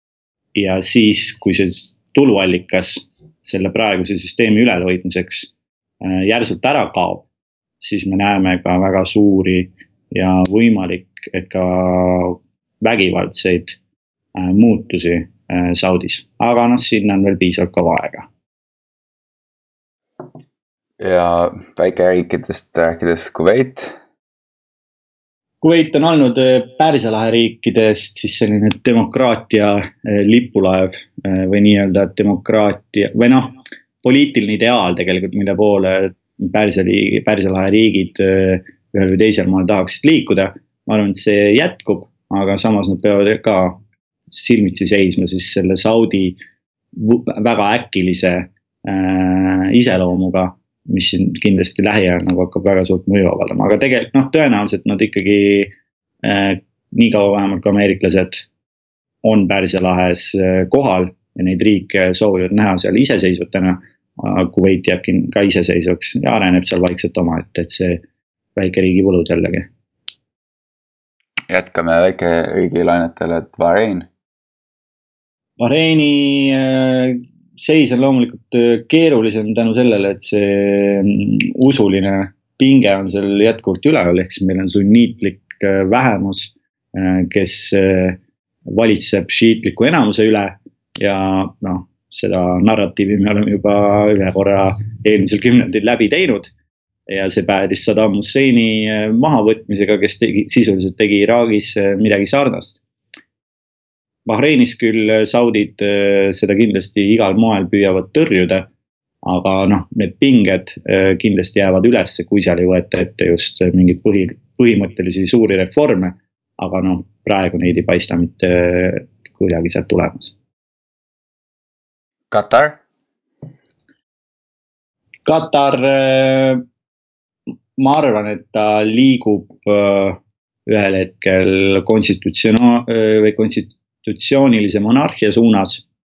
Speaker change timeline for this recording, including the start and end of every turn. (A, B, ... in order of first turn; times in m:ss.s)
0:00.5-0:07.3 A
0:07.8-0:13.8 A
0:14.3-0:18.3 A
0:21.0-0:24.0 B
0:25.6-0:46.4 A
0:46.9-0:58.4 A
0:59.2-1:08.0 A
1:08.6-1:09.7 A
1:11.5-1:14.1 B
1:15.6-1:28.2 A
1:28.7-1:36.5 A
1:37.1-1:42.8 A
1:44.2-1:48.7 A
1:49.2-2:00.3 A
2:02.3-2:02.8 B
2:05.2-2:06.6 A
2:07.8-2:15.8 A